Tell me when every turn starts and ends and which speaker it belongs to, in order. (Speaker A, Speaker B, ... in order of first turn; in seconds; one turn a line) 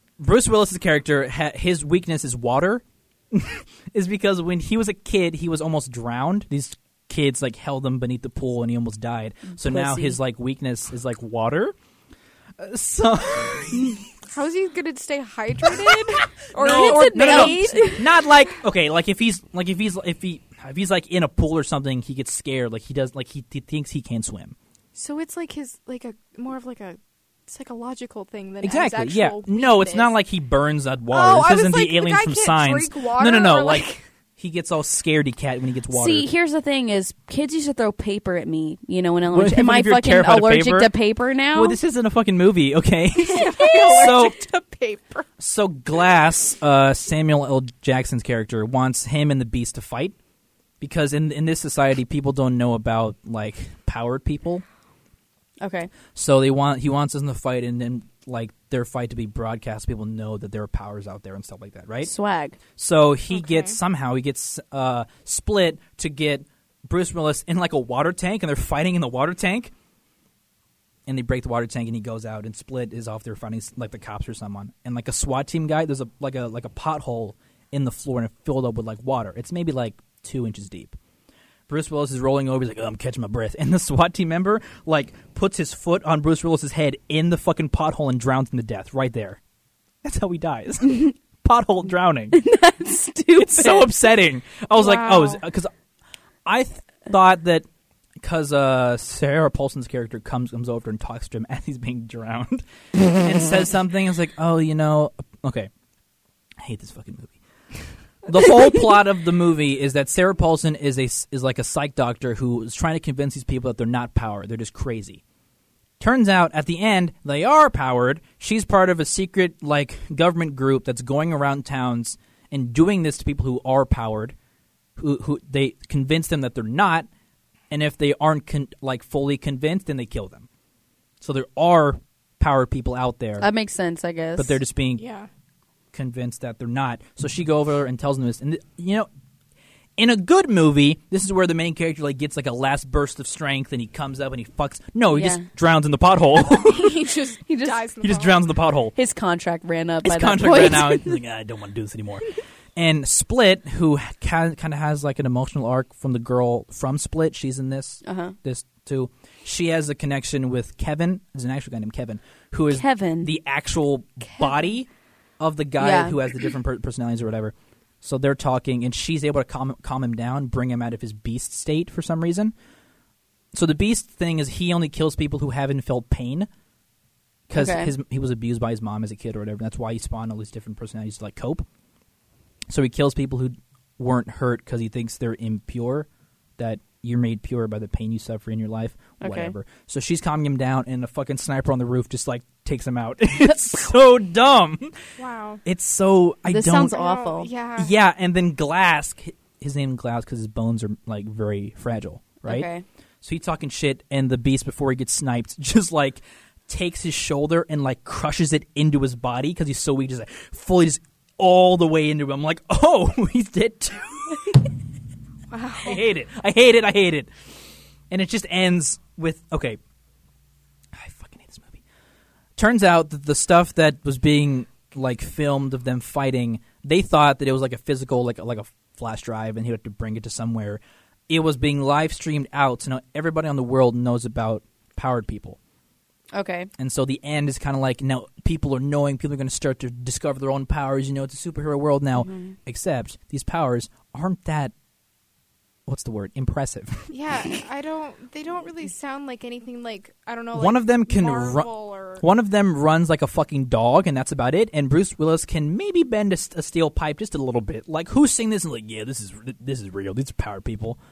Speaker A: 0.2-11.7
Speaker B: 9.5-10.2
Speaker A: 12.6-14.0
Speaker C: 14.3-18.1
Speaker A: 16.5-24.5
Speaker B: 16.6-18.0
Speaker C: 24.9-30.1
Speaker A: 28.6-36.3
Speaker C: 31.1-34.0
Speaker B: 35.9-41.8
Speaker A: 39.3-41.0
Speaker A: 41.5-44.4
Speaker C: 43.2-45.3
Speaker B: 43.6-44.1
Speaker A: 45.4-50.1
Speaker A: 50.8-54.6
Speaker B: 55.6-55.9
Speaker A: 56.1-62.1
Speaker B: 62.0-62.6
Speaker A: 62.8-69.7
Speaker C: 63.3-63.8
Speaker A: 71.1-81.0
Speaker A: 81.7-89.4
Speaker A: 90.0-92.4
Speaker B: 92.3-93.9
Speaker A: 93.3-95.7
Speaker C: 94.8-95.4
Speaker A: 96.5-97.7
Speaker A: 98.2-105.7
Speaker A: 106.6-107.4
Speaker A: 108.2-115.2
Speaker A: 116.0-124.3
Speaker A: 125.0-127.1
Speaker A: 127.7-130.5
Speaker A: 131.2-133.5
Speaker B: 133.4-134.6
Speaker A: 134.4-135.0
Speaker C: 135.0-135.3
Speaker A: 135.9-139.1
Speaker A: 140.0-146.9
Speaker B: 145.1-145.4
Speaker C: 146.5-148.5
Speaker B: 147.5-147.8
Speaker A: 148.0-148.9
Speaker B: 148.9-151.2
Speaker A: 150.0-164.9
Speaker B: 158.0-158.3
Speaker B: 162.7-163.3
Speaker A: 165.4-172.5
Speaker B: 165.8-166.2
Speaker A: 173.5-176.5
Speaker A: 177.5-181.6
Speaker B: 177.5-177.9
Speaker A: 182.7-186.1
Speaker A: 186.6-195.0
Speaker B: 189.2-189.5
Speaker C: 195.2-195.6
Speaker A: 195.6-196.9
Speaker B: 196.5-197.5
Speaker C: 196.9-197.9
Speaker A: 197.8-202.7
Speaker B: 202.4-202.8
Speaker A: 203.2-214.7
Speaker C: 215.5-216.0
Speaker A: 215.8-217.3
Speaker A: 218.1-219.8
Speaker A: 220.9-221.8
Speaker A: 222.6-235.6
Speaker B: 236.3-236.7
Speaker A: 236.8-244.7
Speaker B: 242.2-242.5
Speaker A: 245.9-247.1
Speaker C: 247.1-252.2
Speaker A: 250.5-261.0